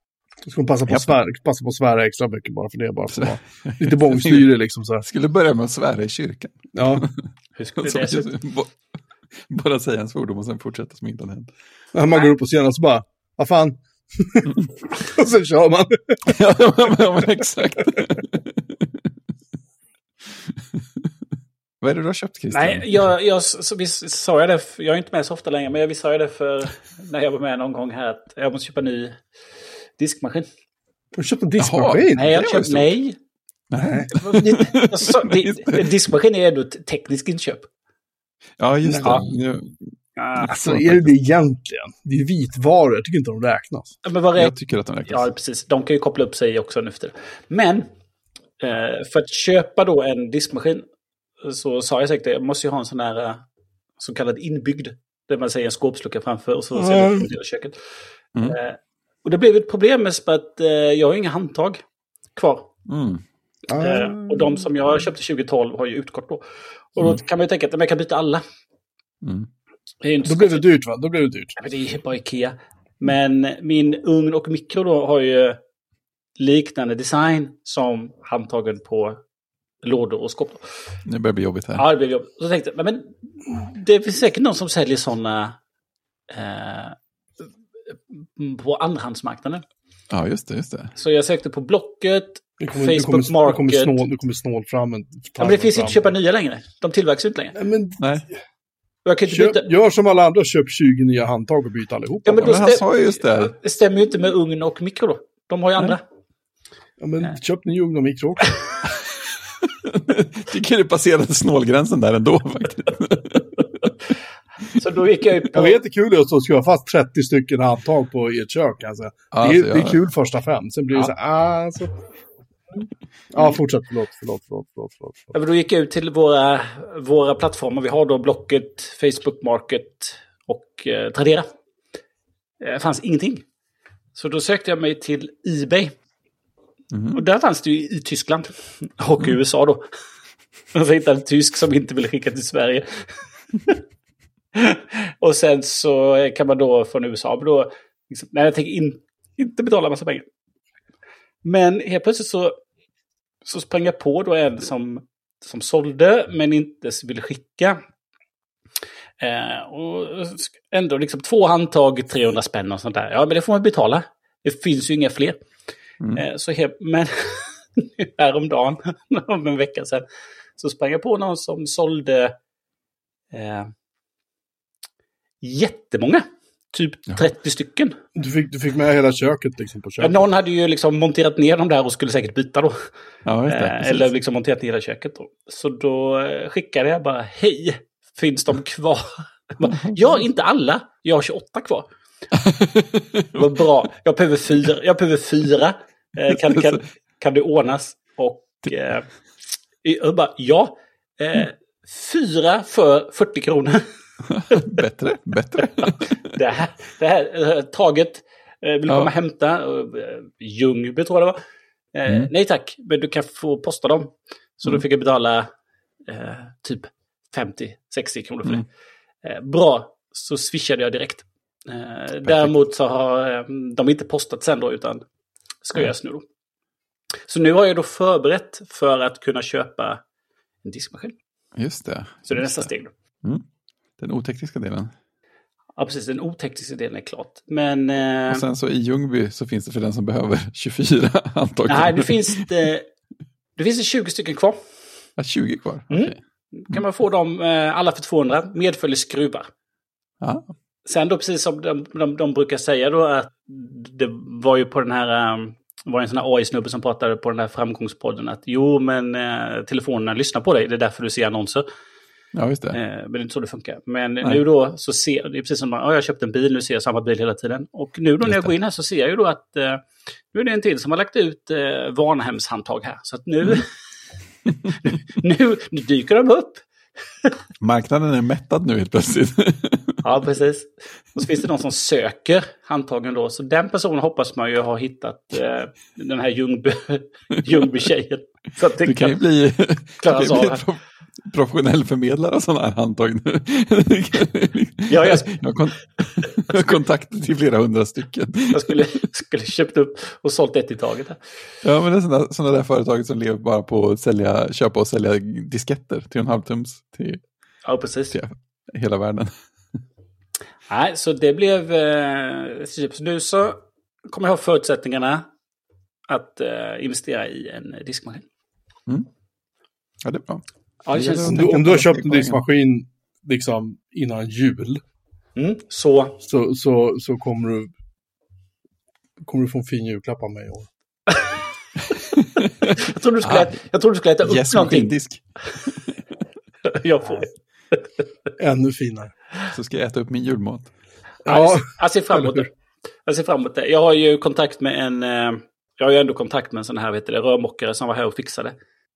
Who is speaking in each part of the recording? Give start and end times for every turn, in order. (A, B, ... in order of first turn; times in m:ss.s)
0:00.4-0:05.0 A
0:03.1-0:04.4 B
0:05.0-0:07.2 B
0:06.7-0:07.1 A
0:07.6-0:08.3 C
0:07.8-0:08.7 B
0:09.4-0:11.5 B
0:11.9-0:16.4 A
0:16.2-0:19.0 B
0:20.3-0:21.1 B
0:21.8-0:23.1 B
0:22.5-0:29.2 C
0:30.0-0:30.5 C
0:31.2-0:32.4 A
0:31.6-0:32.9 B
0:32.1-0:33.2 C
0:33.7-0:35.9 B
0:33.8-0:34.5 A
0:34.1-0:37.7 C
0:38.6-0:41.1 B
0:38.8-0:39.2 A
0:40.2-0:40.5 C
0:40.5-0:44.0 A
0:44.0-0:44.5 C
0:44.4-0:45.3 B
0:45.0-0:47.9 C
0:48.6-0:50.8 C
0:51.4-0:53.4 C
0:54.0-0:57.8 C
0:56.8-0:57.3 A
0:58.4-1:01.8 C
1:02.4-1:02.7 C
1:02.9-1:03.2 B
1:03.7-1:04.6 A
1:03.7-1:08.4 C
1:09.2-1:09.5 B
1:10.0-1:10.6 C
1:10.2-1:11.6 A
1:11.6-1:15.6 C
1:16.4-1:19.2 C
1:19.8-1:20.9 C
1:21.0-1:21.8 B
1:21.8-1:25.6 C
1:26.3-1:27.0 C
1:27.9-1:29.6 C
1:30.1-1:30.9 B
1:31.0-1:34.0 C
1:32.6-1:36.1 A
1:35.4-1:37.6 C
1:37.5-1:38.3 A
1:38.0-1:38.2 B
1:39.0-1:39.7 C
1:39.3-1:42.6 A
1:42.2-1:46.0 C
1:42.4-1:43.5 B
1:47.0-1:48.6 A
1:48.8-1:53.9 B
1:54.7-1:55.8 C
1:55.5-2:02.0 A
1:59.3-2:00.0 B
2:03.3-2:05.3 A
2:05.3-2:11.5 C
2:12.6-2:13.4 C
2:14.1-2:15.9 C
2:16.9-2:17.2 B
2:17.1-2:19.8 C
2:20.7-2:23.2 C
2:24.5-2:30.2 C
2:31.4-2:32.6 C
2:33.4-2:37.8 C
2:39.2-2:45.4 C
2:46.1-2:50.0 C
2:50.6-2:52.4 C
2:53.3-2:53.7 C
2:55.4-2:58.0 C
2:58.2-3:00.2 A
3:00.0-3:02.7 C
3:03.2-3:04.1 B
3:03.5-3:11.9 C
3:09.6-3:10.2 B
3:12.3-3:13.6 B
3:13.4-3:19.0 C
3:16.3-3:16.8 B
3:19.8-3:23.8 C
3:24.2-3:26.2 B
3:24.5-3:24.8 C
3:25.8-3:31.4 C
3:28.9-3:29.1 B
3:31.9-3:35.5 C
3:36.1-3:38.6 C
3:39.2-3:45.0 C
3:42.2-3:42.5 B
3:45.6-3:46.2 C
3:47.3-3:50.0 C
3:50.6-3:51.2 C
3:51.6-3:52.7 B
3:52.3-3:52.9 C
3:54.0-3:54.9 B
3:55.8-3:58.4 C
3:58.3-4:02.5 B
4:01.7-4:02.9 C
4:03.6-4:04.6 C
4:05.2-4:06.2 B
4:05.9-4:09.5 C
4:10.2-4:10.5 B
4:10.8-4:21.6 C
4:22.3-4:22.8 B
4:22.7-4:33.7 C
4:28.2-4:28.5 B
4:34.7-4:36.6 C
4:37.6-4:40.0 B
4:40.0-4:49.2 C
4:48.8-4:58.9 B
4:50.0-4:50.6 C
4:54.9-4:55.4 C
4:58.5-5:01.2 C
5:01.6-5:07.2 B
5:07.6-5:08.2 C
5:08.1-5:09.3 B
5:10.7-5:15.2 C
5:16.1-5:18.2 C
5:20.0-5:22.4 B
5:20.8-5:21.6 C
5:21.2-5:24.8 A
5:25.4-5:26.2 C
5:26.2-5:27.7 A
5:29.2-5:30.7 A
5:31.1-5:31.4 C
5:31.9-5:33.5 B
5:32.7-5:34.9 C
5:34.2-5:35.9 B
5:36.6-5:37.8 C
5:38.4-5:39.1 A
5:39.5-5:40.7 B
5:41.2-5:42.4 A
5:41.2-5:42.5 C
5:43.0-5:48.6 C